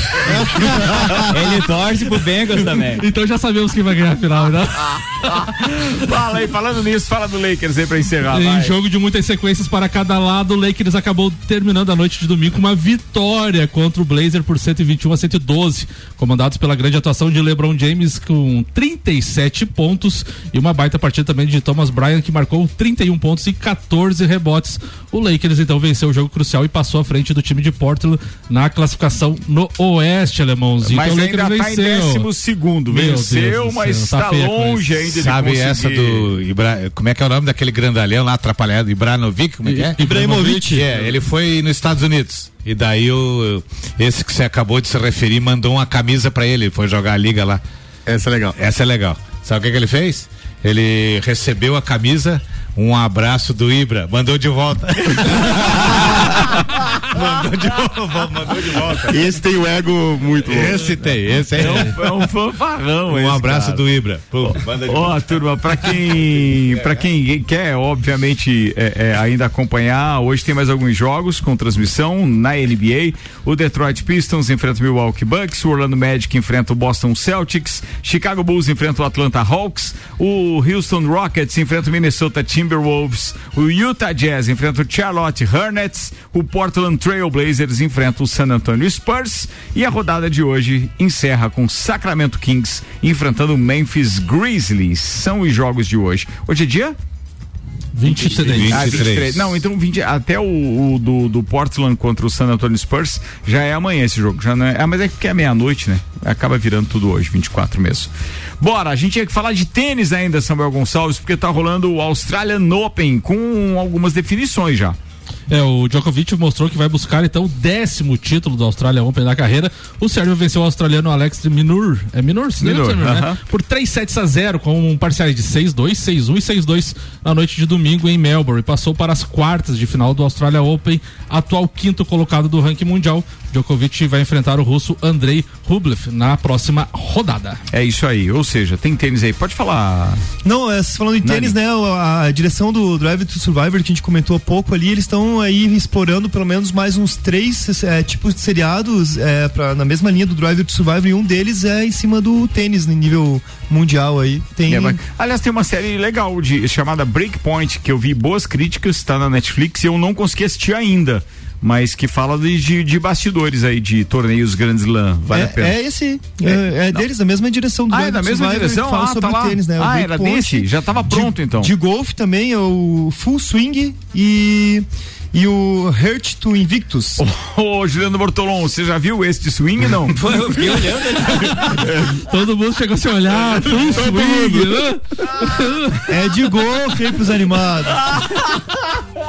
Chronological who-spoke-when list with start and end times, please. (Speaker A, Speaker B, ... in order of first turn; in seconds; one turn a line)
Speaker A: 0.4-1.3
Speaker B: 0.4-3.0
Speaker A: 2.8-5.3
Speaker C: 5.2-8.7
Speaker A: 8.3-32.3
Speaker C: 30.8-36.3
Speaker A: 32.9-35.0
Speaker D: 35.1-47.6
Speaker A: 39.6-40.8
Speaker E: 40.0-41.0
Speaker F: 48.1-48.5
Speaker D: 48.5-59.3
Speaker F: 59.1-60.9
Speaker D: 60.5-62.0
Speaker C: 61.5-63.8
Speaker D: 63.1-65.2
Speaker C: 64.5-97.0
Speaker D: 65.7-67.0
Speaker A: 97.9-99.0
Speaker C: 98.0-115.0
Speaker D: 98.2-99.5
Speaker A: 115.5-137.6
Speaker C: 122.6-123.4
Speaker C: 137.7-140.2
Speaker E: 140.4-155.0
Speaker C: 141.2-141.6
Speaker C: 154.7-165.8
Speaker E: 165.3-177.2
Speaker C: 166.4-167.0
Speaker C: 167.9-171.7
Speaker C: 177.2-180.8
Speaker B: 180.1-181.7
Speaker A: 181.5-186.0
Speaker F: 181.8-182.2
Speaker C: 183.4-184.1
Speaker F: 184.0-184.7
Speaker E: 186.1-188.0
Speaker C: 187.9-188.8